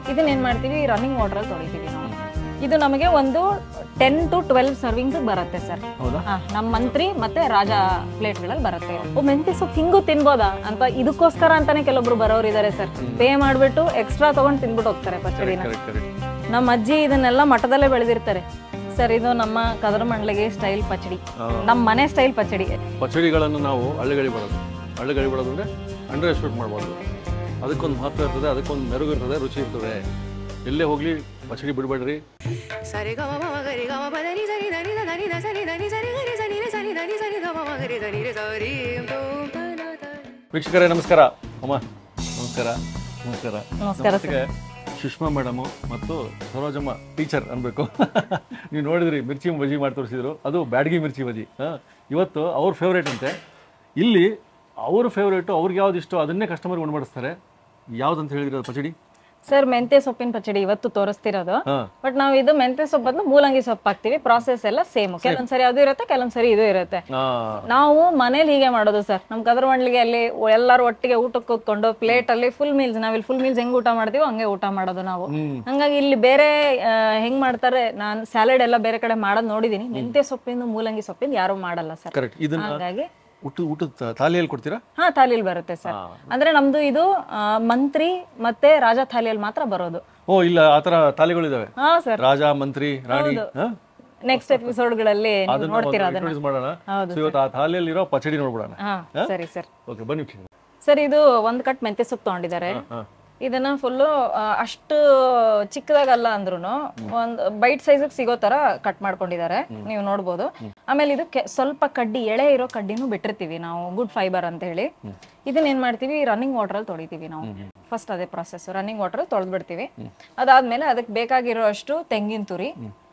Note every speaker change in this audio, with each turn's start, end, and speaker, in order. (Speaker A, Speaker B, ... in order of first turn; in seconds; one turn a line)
Speaker A: 0.1-15.7
Speaker B: 6.0-6.9
Speaker B: 13.0-13.3
Speaker B: 15.3-16.1
Speaker A: 16.5-22.8
Speaker B: 21.4-21.8
Speaker B: 23.0-27.0
Speaker B: 27.6-30.1
Speaker B: 30.6-32.2
Speaker C: 32.9-40.1
Speaker B: 40.5-41.8
Speaker B: 42.4-53.4
Speaker A: 43.8-44.4
Speaker B: 54.0-57.4
Speaker B: 58.0-58.9
Speaker A: 59.5-67.0
Speaker B: 67.1-67.7
Speaker A: 67.7-83.1
Speaker B: 75.3-75.7
Speaker B: 82.1-82.8
Speaker B: 83.4-84.8
Speaker A: 85.0-90.0
Speaker B: 85.8-86.3
Speaker B: 90.3-93.8
Speaker A: 91.8-92.2
Speaker A: 93.1-93.5
Speaker A: 94.2-96.4
Speaker B: 94.3-94.7
Speaker B: 95.5-99.3
Speaker A: 96.9-97.3
Speaker A: 98.8-99.7
Speaker B: 99.8-100.5
Speaker A: 100.8-102.8
Speaker B: 102.7-103.1
Speaker A: 103.4-114.9
Speaker A: 115.5-122.8